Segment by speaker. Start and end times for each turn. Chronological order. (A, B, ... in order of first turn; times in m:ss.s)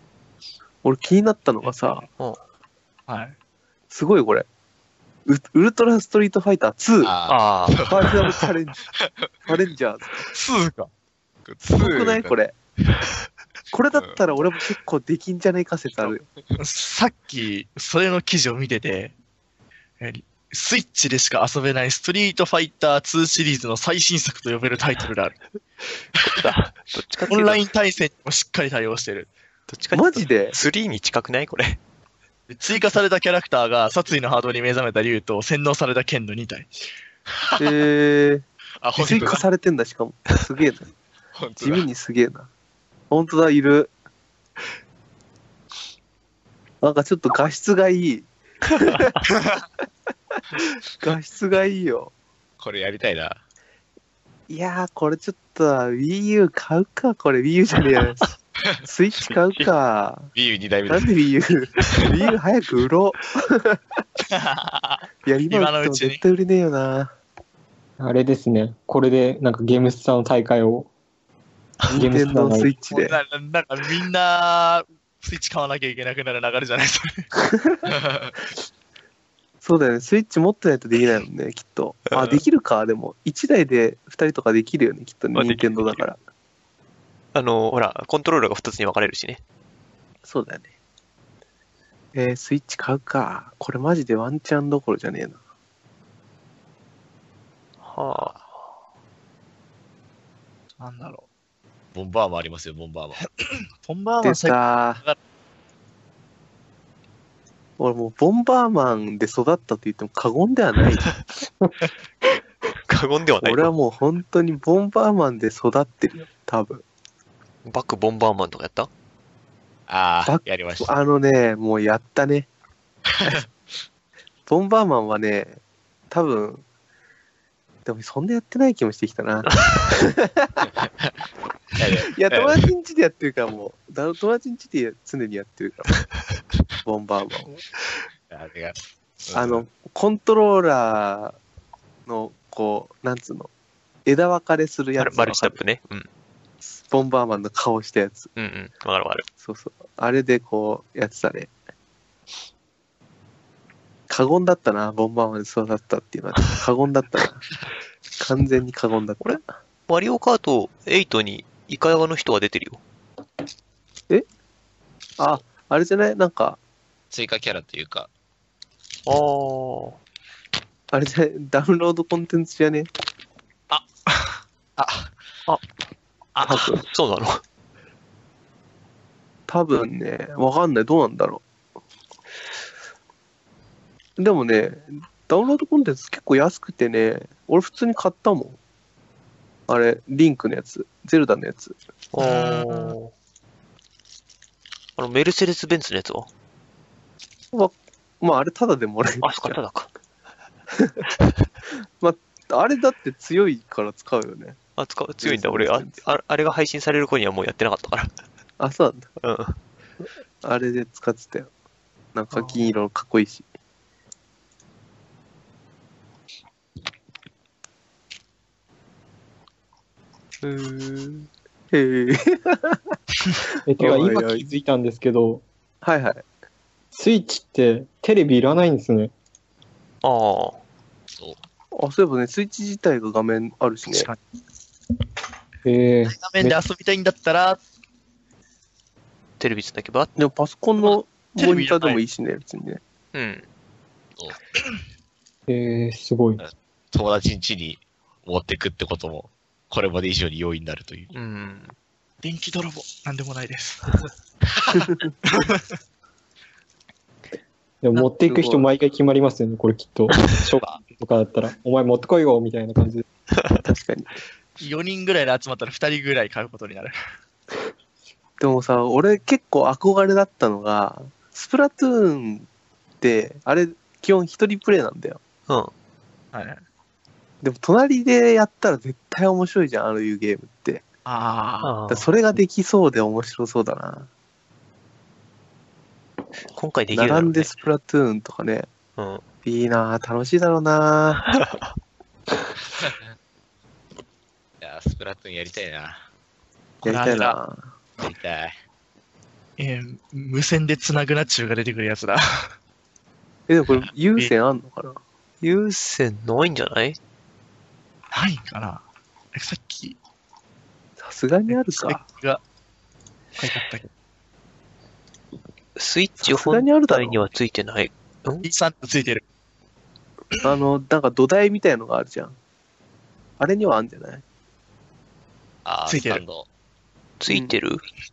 0:00.8-0:02.0 A
0:01.6-0:02.0 B
0:03.1-0:03.3 B
0:03.9-0:04.5 A
0:05.2-0:07.1 A
0:07.0-0:08.4 C
0:07.3-0:08.0 D
0:07.9-0:08.8 A
0:08.9-0:09.5 C
0:09.4-0:10.2 A
0:10.3-0:10.9 B
0:11.4-0:12.4 C
0:11.8-0:12.6 A
0:13.7-0:16.2 A
0:13.9-0:14.2 C
0:16.5-0:19.1 B
0:20.0-0:25.4 B
0:26.2-0:27.6 D
0:27.3-0:29.3 B
0:29.7-0:31.8 D
0:29.9-0:30.6 A
0:32.5-0:36.7 B
0:37.3-0:37.6 C
0:37.6-0:38.4 A
0:38.8-0:39.4 C
0:39.0-0:40.9 A
0:41.4-0:41.8 C
0:41.6-0:42.5 A
0:43.1-0:43.9 A
0:46.8-0:49.1 A
0:50.6-0:52.1 A
0:52.6-0:53.4 C
0:54.5-0:58.3 A
0:58.8-1:00.3 A
1:00.3-1:01.1 C
1:00.9-1:04.0 A
1:04.3-1:06.2 B
1:05.2-1:07.1 A
1:08.0-1:10.9 E
1:11.9-1:13.2 A
1:11.9-1:12.7 E
1:12.9-1:17.2 B
1:17.5-1:17.8 A
1:18.0-1:18.3 C
1:19.6-1:26.2 A
1:25.3-1:26.0 D
1:27.3-1:29.4 D
1:30.2-1:30.7 A
1:32.1-1:35.4 A
1:37.8-1:38.7 D
1:40.8-1:41.2 B
1:41.9-1:43.2 C
1:43.2-1:45.2 B
1:44.2-1:45.0 A
1:47.8-1:51.2 A
1:52.9-1:53.7 D
1:53.4-1:56.8 A
1:57.6-1:58.9 D
1:59.9-2:00.9 C
2:00.2-2:02.5 A
2:03.1-2:03.4 C
2:04.5-2:05.6 A
2:06.1-2:06.6 A
2:07.8-2:10.7 A
2:10.8-2:11.1 C
2:11.8-2:12.6 C
2:12.1-2:16.1 A
2:16.8-2:17.6 A
2:18.3-2:19.6 C
2:19.3-2:21.4 A
2:22.0-2:23.5 A
2:24.0-2:25.6 A
2:25.0-2:26.1 D
2:26.6-2:28.3 A
2:28.4-2:29.3 D
2:29.4-2:31.5 A
2:34.1-2:37.4 A
2:38.2-2:39.4 A
2:39.2-2:42.8 D
2:45.2-2:46.6 A
2:47.1-2:48.1 C
2:49.0-2:50.0 D
2:50.9-2:52.9 A
2:53.7-2:54.4 B
2:54.8-2:55.1 C
2:56.3-2:56.7 B
2:56.4-2:56.8 A
2:56.4-2:57.4 D
2:59.5-3:01.4 A
3:04.2-3:08.6 A
3:09.7-3:11.7 A
3:12.1-3:13.1 D
3:12.2-3:13.0 B
3:15.0-3:16.3 D
3:17.5-3:19.6 A
3:19.2-3:19.9 D
3:20.7-3:21.0 A
3:22.0-3:24.6 A
3:24.8-3:28.1 D
3:25.2-3:26.0 A
3:28.6-3:29.1 A
3:29.2-3:29.6 D
3:30.4-3:31.5 A
3:32.1-3:33.4 A
3:40.4-3:42.8 A
3:43.7-3:45.4 E
3:43.8-3:44.5 A
3:45.8-3:46.2 A
3:46.9-3:49.1 E
3:50.0-3:50.6 D
3:51.7-3:54.1 A
3:53.9-3:54.2 B
3:55.6-3:56.6 E
3:56.0-3:57.6 B
3:59.4-4:00.2 D
4:00.2-4:02.8 A
4:00.8-4:02.0 B
4:03.1-4:03.4 D
4:05.5-4:06.4 E
4:06.4-4:11.1 C
4:11.1-4:11.7 D
4:12.2-4:13.9 B
4:14.5-4:14.9 C
4:15.2-4:15.6 B
4:17.8-4:23.0 E
4:18.0-4:18.6 A
4:23.6-4:24.1 A
4:24.6-4:26.9 B
4:28.4-4:32.5 A
4:33.0-4:35.2 A
4:36.3-4:36.6 B
4:37.4-4:40.8 A
4:41.0-4:41.7 B
4:41.6-4:42.1 D
4:41.9-4:44.1 A
4:46.5-4:47.6 D
4:46.9-4:48.7 A
4:49.0-4:49.2 D
4:49.4-4:51.2 A
4:52.7-4:53.1 C
4:54.6-4:56.0 C
4:56.8-4:57.3 B
4:56.8-4:57.7 A
4:58.0-4:58.6 C
4:59.6-5:02.5 B
5:03.5-5:05.0 A
5:05.4-5:07.0 D
5:08.1-5:10.0 B
5:11.0-5:12.0 A
5:11.5-5:12.4 B
5:13.4-5:13.9 B
5:15.8-5:18.5 D
5:16.2-5:17.2 A
5:18.4-5:19.2 B
5:20.4-5:22.4 A
5:23.4-5:24.2 A
5:25.6-5:26.5 C
5:25.9-5:26.2 B
5:27.2-5:27.8 D
5:27.3-5:27.5 A